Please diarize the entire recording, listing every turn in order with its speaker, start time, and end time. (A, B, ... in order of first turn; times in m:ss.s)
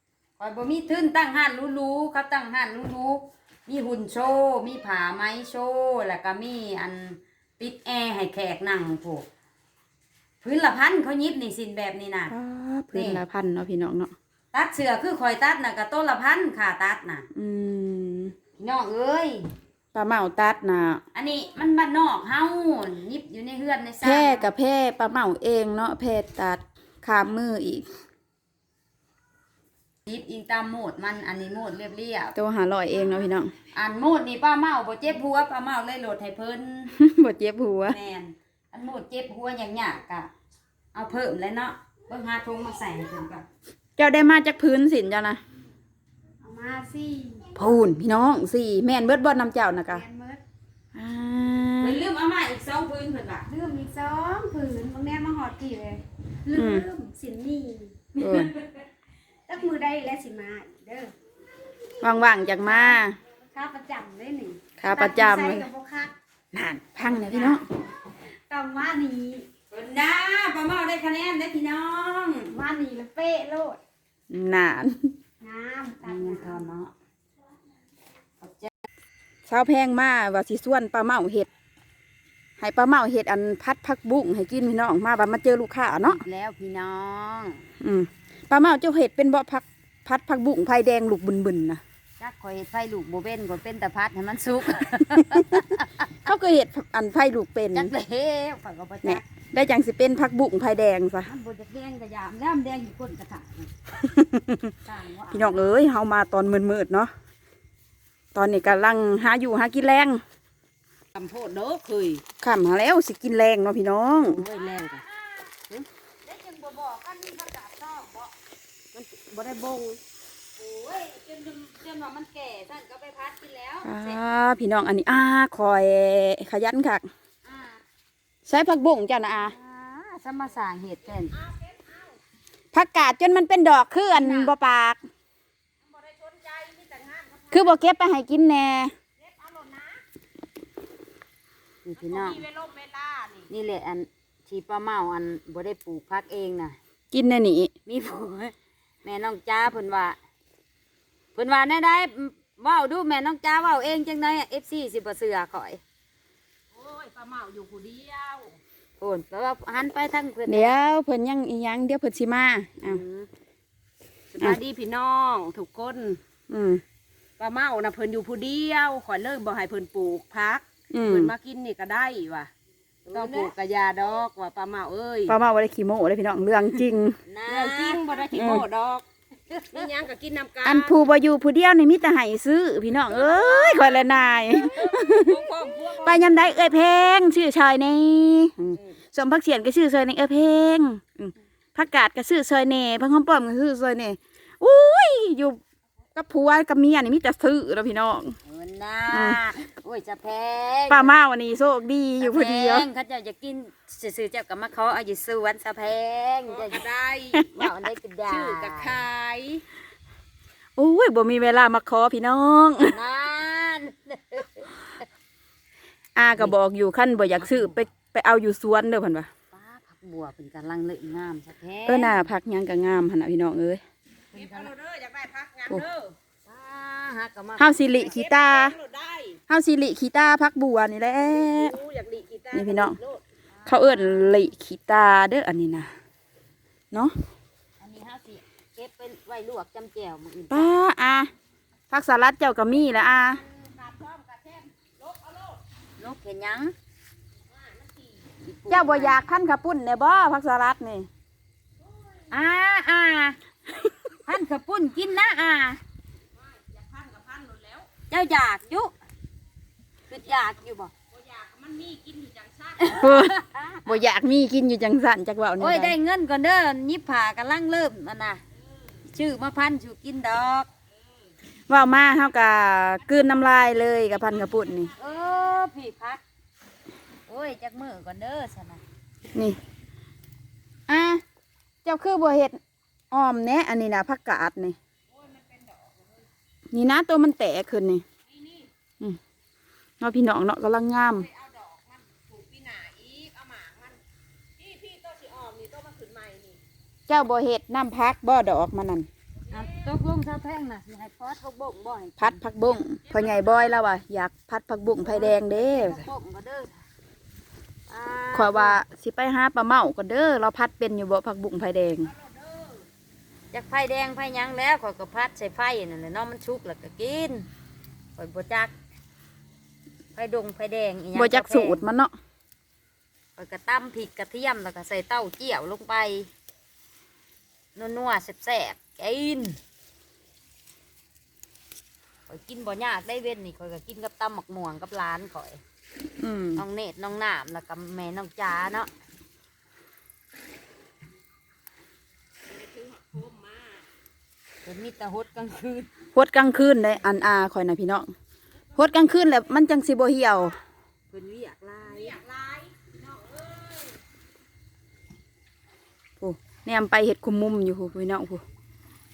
0:00.4-0:09.2 A
0:10.4-0:12.3 A
0:12.3-0:14.1 B
0:12.9-0:13.2 A
0:14.5-0:17.2 A
0:17.3-0:18.3 B
0:18.6-0:19.5 A
0:19.9-0:21.0 B
0:21.1-0:24.5 A
0:24.0-0:27.8 B
0:30.0-0:32.3 A
0:32.3-0:33.5 B
0:33.7-0:36.9 A
0:37.0-0:38.0 B
0:37.9-0:40.3 A
0:40.9-0:43.4 A
0:44.0-0:45.4 B
0:46.4-0:47.5 C
0:47.5-0:50.0 B
0:49.9-0:50.4 C
0:50.9-0:52.0 B
0:51.8-0:53.5 A
0:53.5-0:58.0 C
0:56.5-0:56.9 B
0:58.2-0:58.5 B
0:59.5-1:01.1 C
1:02.0-1:03.2 B
1:03.5-1:06.1 C
1:04.8-1:05.7 B
1:06.5-1:07.6 B
1:08.5-1:09.4 C
1:09.7-1:12.5 A
1:12.5-1:13.8 C
1:14.3-1:15.1 B
1:15.4-1:16.5 C
1:16.0-1:16.9 A
1:18.4-1:18.7 A
1:19.5-1:21.5 B
1:22.6-1:26.2 B
1:26.0-1:27.6 A
1:27.8-1:31.8 B
1:32.2-1:36.1 A
1:35.4-1:35.6 B
1:36.2-1:37.9 B
1:37.7-1:39.2 A
1:39.0-1:41.3 B
1:41.2-1:43.7 A
1:44.0-1:44.7 B
1:44.8-1:45.7 A
1:45.3-1:47.1 B
1:48.3-1:50.2 B
1:51.1-1:52.2 D
1:52.4-1:54.4 B
1:54.3-1:55.5 A
1:54.3-1:55.0 D
1:56.2-1:58.3 A
1:58.9-2:00.0 D
2:00.6-2:04.2 A
2:03.8-2:07.0 B
2:07.4-2:07.8 A
2:08.4-2:09.5 B
2:09.4-2:11.4 A
2:11.3-2:12.2 D
2:12.7-2:15.0 B
2:14.1-2:14.5 A
2:15.8-2:17.8 D
2:17.5-2:18.9 B
2:19.2-2:20.0 D
2:21.8-2:22.4 A
2:22.0-2:23.5 D
2:23.5-2:26.8 A
2:27.1-2:27.7 B
2:27.8-2:30.2 A
2:31.3-2:35.8 A
2:36.7-2:38.6 D
2:39.0-2:40.7 A
2:40.5-2:43.0 B
2:42.8-2:43.3 A
2:44.3-2:46.2 D
2:46.5-2:46.8 B
2:47.4-2:52.5 D
2:50.9-2:51.3 B
2:53.1-2:53.5 A
2:53.1-2:55.4 D
2:55.3-2:57.2 B
2:57.2-2:58.0 A
2:57.5-2:59.0 D
2:58.3-2:58.6 B
2:59.5-2:59.9 A
2:59.7-3:01.1 D
3:00.6-3:05.3 B
3:03.1-3:04.0 D
3:04.7-3:06.7 D
3:06.0-3:15.6 B
3:16.1-3:18.4 B
3:18.5-3:21.1 A
3:19.1-3:19.4 B
3:20.9-3:22.9 B
3:22.2-3:26.8 A
3:26.5-3:27.5 D
3:27.3-3:27.7 B
3:27.5-3:29.0 A
3:28.3-3:29.6 D
3:30.8-3:33.0 B
3:32.9-3:35.0 A
3:36.2-3:39.3 B
3:39.5-3:42.1 A
3:41.9-3:43.8 B
3:44.3-3:44.7 A
3:44.3-3:46.1 D
3:46.4-3:47.7 A
3:47.6-3:48.8 B
3:48.0-3:49.4 D
3:49.5-3:51.8 B
3:51.2-3:53.2 D
3:52.5-3:53.0 B
3:53.5-3:54.5 A
3:53.6-3:55.9 B
3:57.8-4:00.7 A
4:00.5-4:01.3 B
4:01.9-4:03.4 B
4:03.0-4:05.6 D
4:06.0-4:06.7 A
4:07.5-4:08.2 D
4:08.4-4:09.2 A
4:08.7-4:11.1 B
4:12.3-4:13.4 A
4:14.2-4:15.8 A
4:16.3-4:17.9 D
4:18.1-4:18.9 A
4:20.1-4:20.9 A
4:21.1-4:23.0 D
4:22.8-4:23.9 A
4:22.9-4:26.0 B
4:25.6-4:28.4 A
4:29.1-4:30.7 A
4:31.7-4:34.9 B
4:35.0-4:36.2 A
4:37.3-4:38.8 A
4:40.9-4:41.2 B
4:41.8-4:42.6 B
4:43.1-4:44.8 B
4:45.1-4:46.2 D
4:46.7-4:48.0 B
4:48.4-4:48.7 D
4:50.0-4:51.3 B
4:51.2-4:54.0 D
4:54.6-4:56.6 D
4:57.1-4:59.1 B
4:59.5-5:02.4 A
5:02.2-5:06.0 B
5:03.1-5:03.7 D
5:05.0-5:06.7 A
5:07.9-5:08.8 A
5:08.3-5:12.1 B
5:12.1-5:12.8 D
5:13.5-5:17.5 A
5:18.2-5:18.7 A
5:20.1-5:21.8 A
5:21.1-5:22.1 B
5:23.4-5:26.3 A
5:27.7-5:29.6 A
5:32.3-5:35.6 A
5:36.2-5:36.6 B
5:36.6-5:38.9 A
5:42.5-5:43.8 D
5:44.6-5:45.9 A
5:46.1-5:48.1 B
5:48.8-5:50.6 B
5:51.1-5:52.2 A
5:51.8-5:54.0 D
5:56.2-5:58.4 B